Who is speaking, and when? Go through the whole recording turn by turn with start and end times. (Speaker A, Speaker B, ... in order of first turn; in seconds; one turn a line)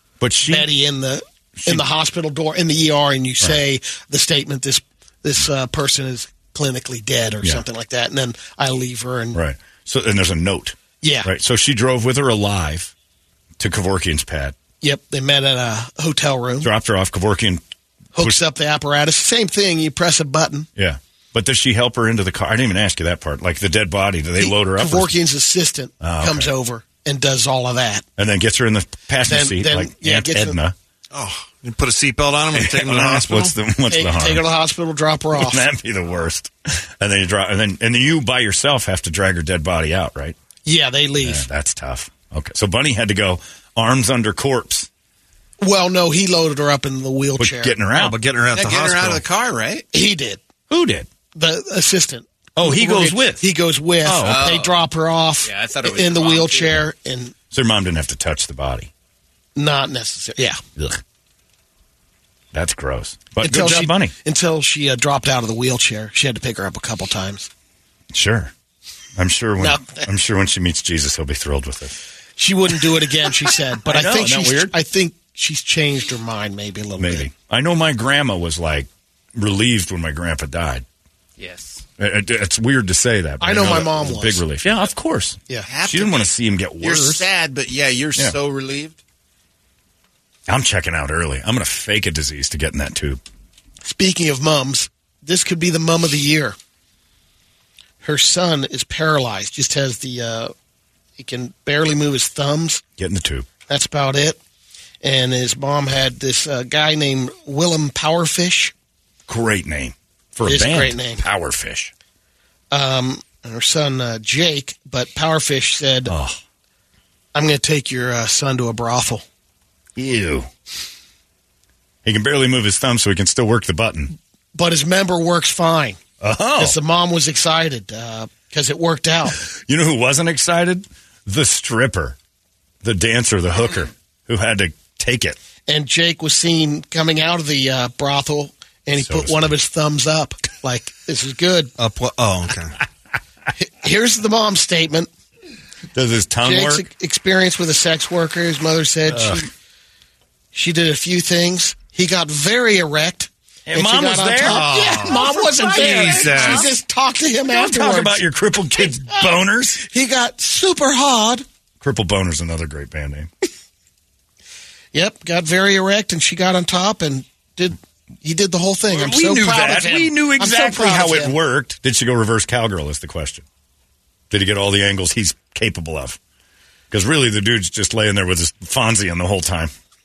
Speaker A: 0.2-0.7
Speaker B: 0.4-9.4
Speaker A: 1.6-1.8
Speaker A: 9.3-12.9
Speaker B: 11.0-11.3
Speaker A: 13.6-14.5
Speaker B: 14.8-16.7
Speaker A: 16.6-17.6
Speaker B: 18.1-20.7
Speaker A: 20.8-25.2
Speaker B: 24.4-28.0
Speaker A: 26.0-26.5
Speaker A: 28.2-30.7
Speaker B: 29.2-30.6
Speaker C: 31.1-33.5
Speaker A: 32.5-34.4
Speaker B: 33.9-35.6
Speaker A: 35.4-40.4
Speaker B: 40.6-41.4
Speaker A: 41.2-44.9
Speaker B: 45.6-47.7
Speaker A: 47.4-48.2
Speaker C: 47.9-49.2
Speaker D: 48.5-49.9
Speaker B: 49.9-50.4
Speaker A: 50.7-51.1
Speaker B: 51.3-57.3
Speaker A: 52.5-53.4
Speaker A: 54.0-54.5
Speaker D: 54.2-54.8
Speaker D: 55.4-56.7
Speaker A: 57.5-58.9
Speaker B: 59.5-60.6
Speaker A: 62.5-64.1
Speaker B: 63.4-67.5
Speaker A: 68.1-68.5
Speaker A: 69.2-72.0
Speaker B: 69.6-70.0
Speaker B: 72.4-77.3
Speaker A: 73.9-74.7
Speaker A: 77.0-80.8
Speaker D: 81.4-81.8
Speaker A: 82.0-87.2
Speaker B: 83.4-84.4
Speaker D: 85.6-89.0
Speaker A: 90.5-93.2
Speaker B: 93.8-96.5
Speaker B: 98.0-100.5
Speaker B: 101.2-102.8
Speaker A: 103.0-103.5
Speaker B: 103.7-104.4
Speaker B: 105.0-108.7
Speaker A: 109.3-111.9
Speaker B: 110.4-111.2
Speaker B: 112.7-116.1
Speaker A: 116.1-116.4
Speaker B: 117.3-119.2
Speaker A: 120.0-120.5
Speaker A: 122.0-124.1
Speaker B: 124.5-126.0
Speaker A: 126.2-126.8
Speaker B: 126.6-129.4
Speaker A: 129.4-132.2
Speaker A: 132.8-135.4
Speaker B: 135.7-141.7
Speaker A: 139.0-139.5
Speaker C: 141.8-142.7
Speaker B: 143.5-145.1
Speaker A: 145.9-146.8
Speaker B: 146.4-149.5
Speaker A: 149.1-149.4
Speaker B: 150.5-158.2
Speaker A: 153.7-154.7
Speaker C: 154.4-156.7
Speaker A: 155.2-156.6
Speaker A: 157.5-159.8
Speaker B: 159.8-161.4
Speaker A: 161.8-163.3
Speaker B: 164.9-171.3
Speaker A: 168.9-173.4
Speaker A: 174.3-176.2
Speaker A: 176.9-179.7